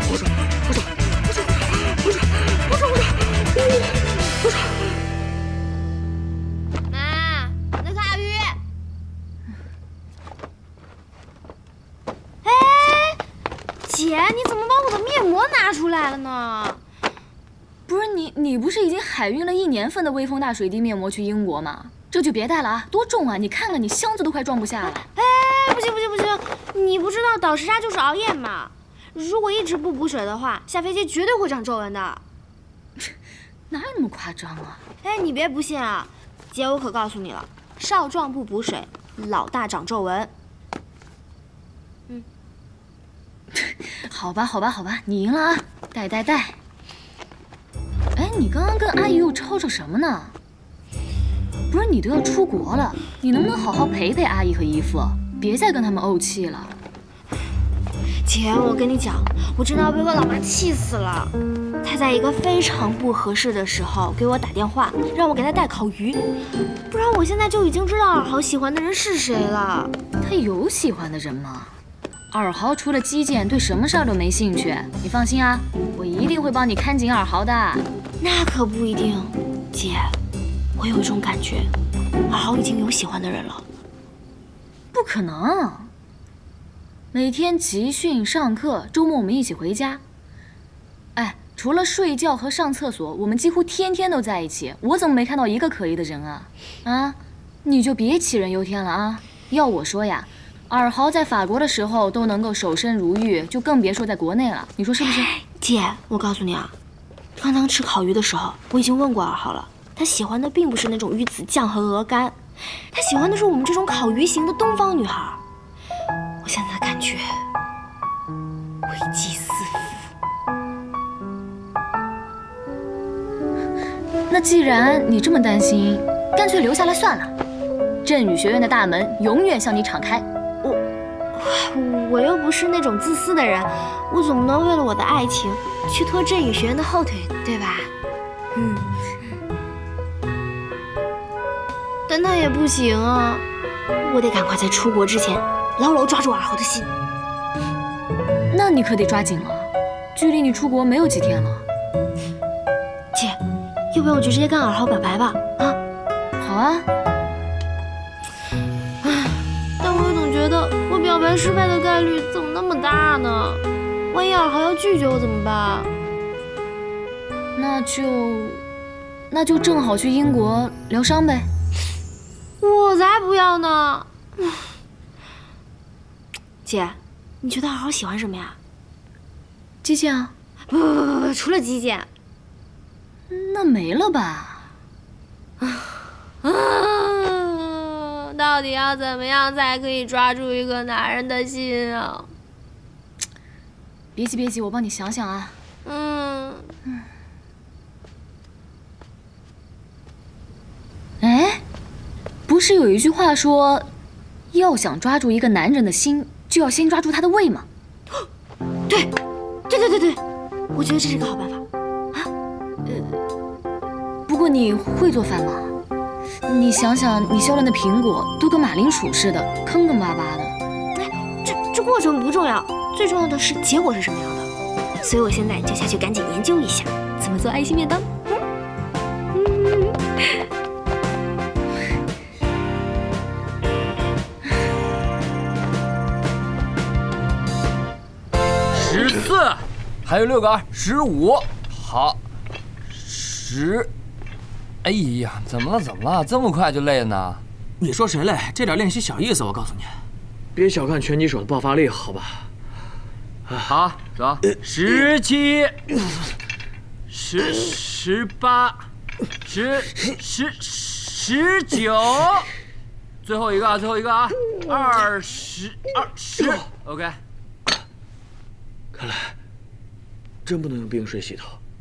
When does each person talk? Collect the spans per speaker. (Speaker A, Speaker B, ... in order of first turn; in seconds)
Speaker A: 6.9-8.6, 12.4-13.2, 13.8-16.8, 24.9-32.2, 35.0-40.3, 58.2-66.2, 66.9-69.9, 78.2-80.1, 80.8-81.7, 82.3-83.6, 105.0-106.7, 107.4-112.4, 112.9-115.4, 116.4-117.2, 118.8-120.0, 131.3-137.9, 138.5-138.9, 142.1-143.4, 144.0-146.9, 153.9-155.8, 159.0-165.9, 172.6-174.6, 176.6-178.6, 180.7-182.1, 185.6-185.9, 186.4-192.3, 195.8-196.7, 208.9-209.1, 209.7-210.2, 210.7-212.3, 220.9-224.5, 225.0-228.1, 229.3-229.9
Speaker B: 17.9-25.1, 33.7-34.8, 43.5-46.6, 48.1-50.4, 51.7-56.7, 70.2-71.7, 72.3-77.8, 84.9-85.9, 87.1-90.0, 91.2-105.3, 124.3-127.3, 128.0-130.3, 148.5-151.6, 156.4-156.9, 167.6-168.6, 169.3-171.5, 179.8-180.3, 183.3-184.7, 194.2-195.6, 201.2-201.6, 202.5-203.9, 204.5-207.7, 212.8-213.2, 214.2-215.7, 216.4-220.6
Speaker C: 238.7-242.2, 242.9-243.9, 244.8-247.4, 253.7-255.9, 257.1-258.8, 259.4-262.5, 263.2-267.2
Speaker D: 247.8-250.0, 250.5-252.5, 268.9-269.3, 270.4-271.6